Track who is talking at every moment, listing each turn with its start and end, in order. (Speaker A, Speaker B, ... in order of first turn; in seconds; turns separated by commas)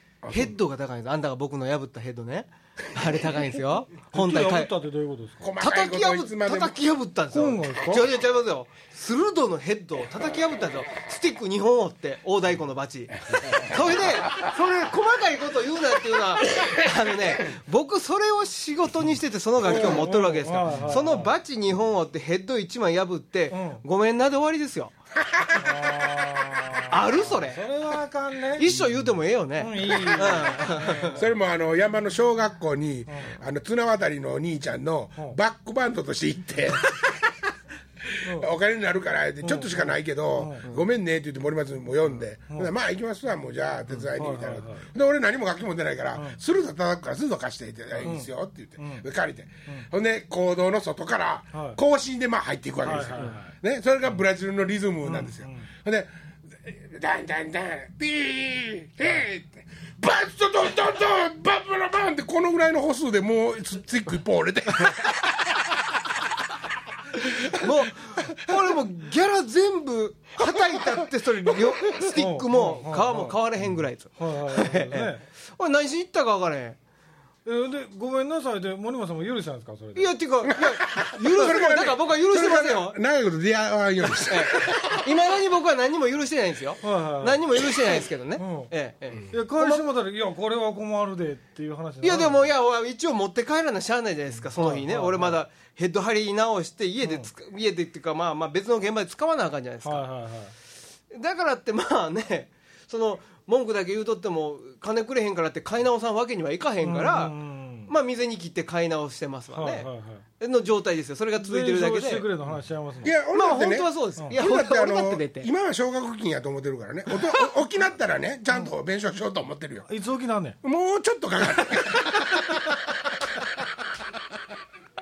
Speaker A: 0.2-0.5, Speaker B: 0.3-4.7, Speaker C: 4.1-5.5, Speaker A: 5.4-6.8, Speaker B: 5.6-24.9, Speaker C: 7.3-8.1, Speaker A: 13.4-13.8, Speaker C: 19.6-21.3, Speaker A: 19.7-20.0, Speaker C: 23.5-23.8, Speaker A: 25.2-26.8, Speaker C: 25.5-28.8, Speaker B: 26.9-27.6, Speaker B: 28.5-31.2, Speaker C: 29.6-31.2, Speaker A: 31.1-37.3, Speaker A: 38.1-65.5, Speaker C: 39.4-40.7, Speaker C: 44.1-44.9, Speaker C: 48.0-48.3, Speaker C: 48.8-49.0, Speaker C: 51.5-51.8, Speaker C: 52.8-53.5, Speaker C: 55.0-55.7, Speaker A: 67.3-67.7, Speaker B: 67.5-76.8, Speaker C: 72.1-73.4, Speaker C: 74.2-75.2, Speaker C: 77.4-80.1, Speaker B: 80.0-83.0, Speaker A: 80.5-85.0, Speaker B: 84.1-89.8, Speaker C: 86.8-87.4, Speaker C: 88.3-88.7, Speaker C: 89.3-92.5, Speaker B: 92.0-100.1, Speaker C: 94.5-95.4, Speaker C: 97.0-97.3, Speaker C: 99.8-100.5, Speaker B: 101.1-112.3, Speaker C: 106.8-107.9, Speaker C: 109.5-110.2, Speaker C: 111.4-113.1, Speaker A: 113.0-119.9, Speaker B: 113.3-115.5, Speaker C: 119.9-120.6, Speaker A: 120.6-122.6